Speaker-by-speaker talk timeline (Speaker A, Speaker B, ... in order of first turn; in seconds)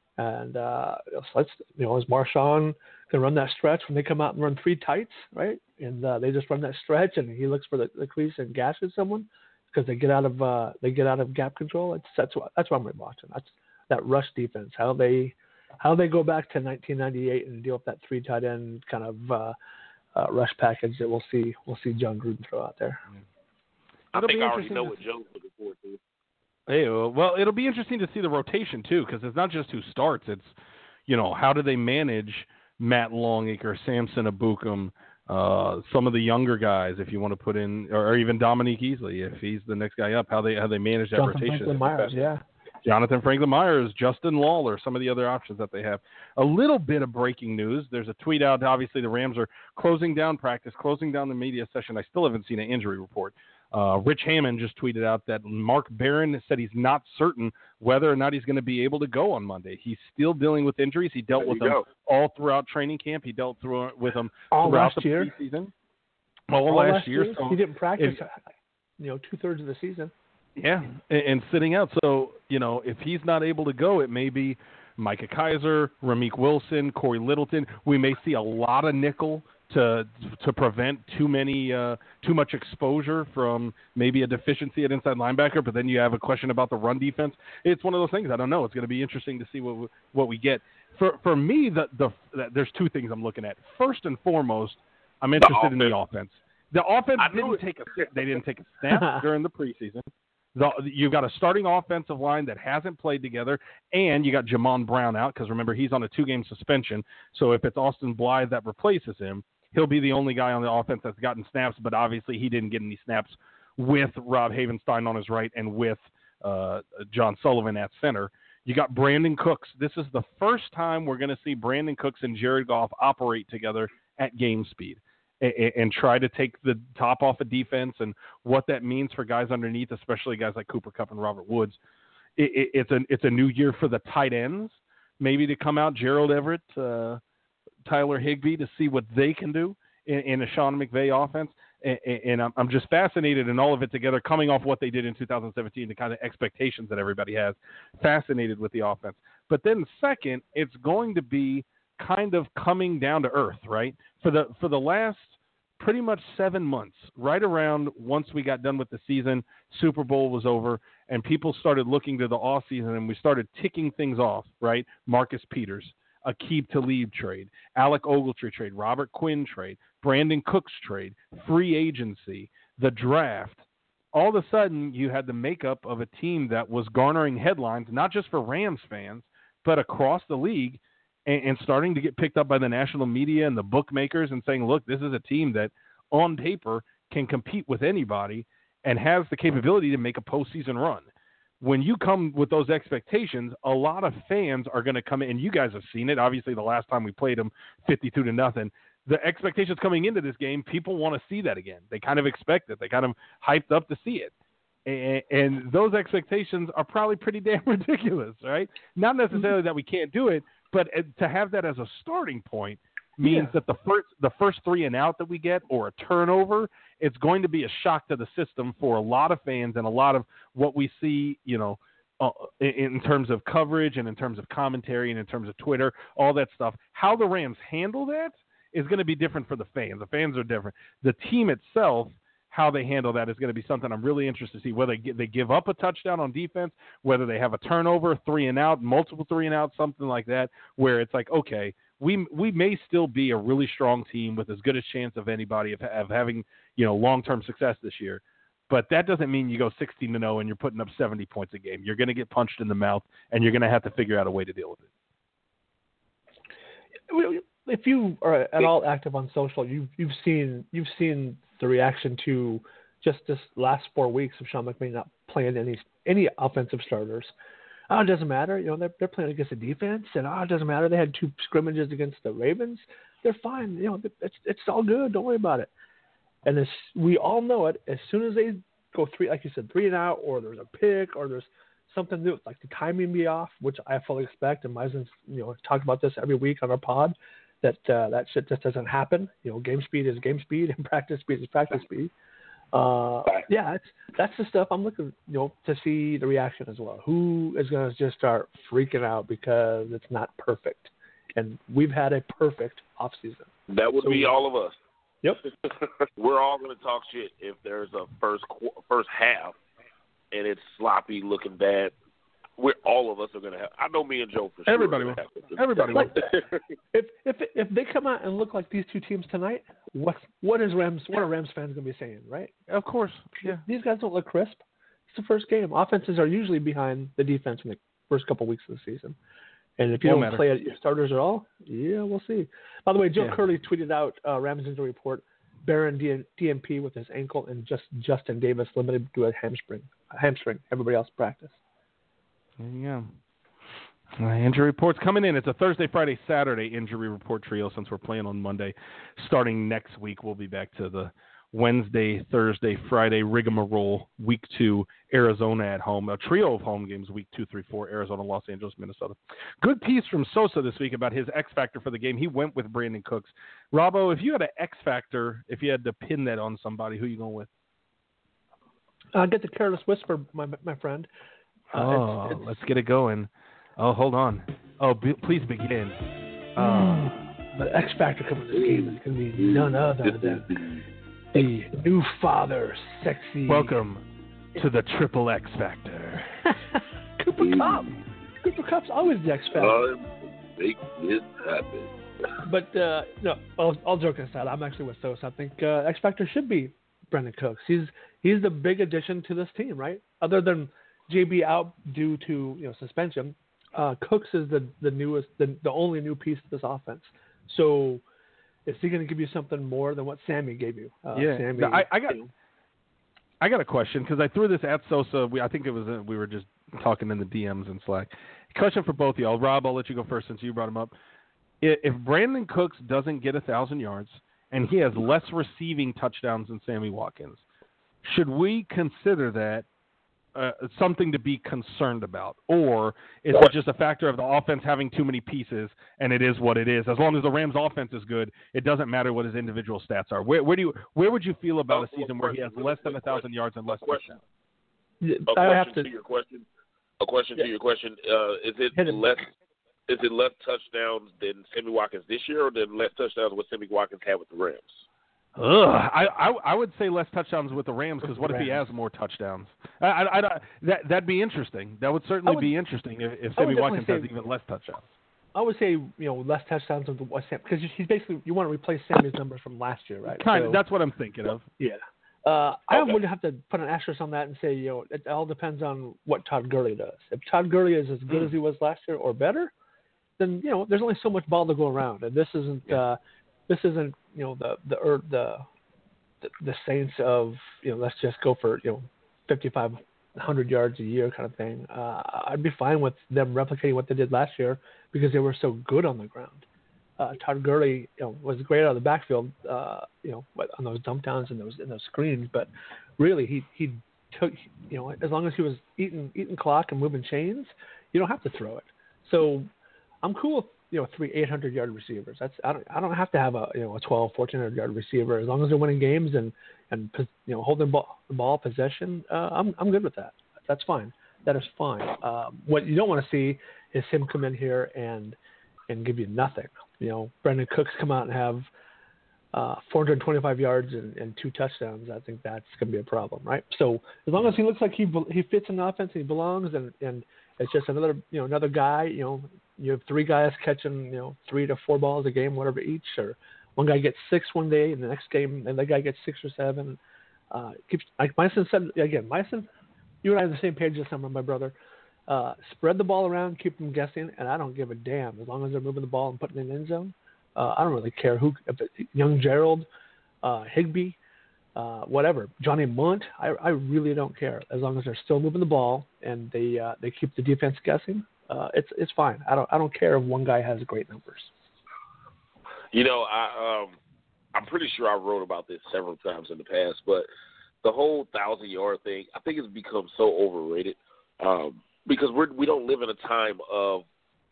Speaker A: 0.2-19.6, 20.1-23.0, 41.1-42.4, 64.5-65.3, 66.7-70.1, 98.9-99.2, 213.2-213.6, 257.1-267.3, 267.9-275.7, 276.5-292.1, 292.7-303.5, 304.0-304.3, 316.9-322.5, 323.5-329.2, 329.8-341.6, 369.1-371.1, 371.7-372.6, 376.6-380.5, 381.3-383.8, 387.2-387.9, 388.4-389.8, 392.4-408.0, 408.7-412.3, 445.0-445.9, 448.8-449.0, 458.0-458.7, 462.3-462.5, 463.4-464.1, 465.4-470.6, 471.6-479.5, 480.2-483.0, 483.5-485.4, 486.2-496.4, 497.0-509.5, 510.0-525.2, 525.7-528.5, 529.3-546.8, 547.3-549.5, 550.0-551.5, 552.1-559.7, 560.2-561.0, 561.6-571.3
Speaker B: 24.1-26.0, 61.3-61.8, 95.4-96.0, 97.2-98.3, 303.7-304.7, 306.2-309.6, 310.3-311.9, 312.6-316.6, 378.6-380.9, 387.4-387.8, 389.6-391.9, 441.7-444.2, 445.3-446.5, 447.0-449.2, 449.9-454.8, 472.7-473.0, 572.7-573.8, 574.4-577.1, 577.6-583.9
Speaker C: 24.1-25.0, 26.7-30.5, 31.1-42.1, 42.8-65.7, 66.5-68.2, 70.6-131.8, 132.4-137.2, 137.9-173.6, 174.1-191.1, 191.6-204.3, 204.9-254.9, 314.7-316.2, 322.7-323.6, 330.0-330.4, 342.6-343.1, 344.2-367.5, 371.7-376.0, 376.6-377.2, 383.5-384.1, 384.6-386.3, 411.1-412.2, 413.4-420.9, 421.6-427.4, 428.1-429.7, 430.4-444.2, 455.4-464.9, 470.2-471.5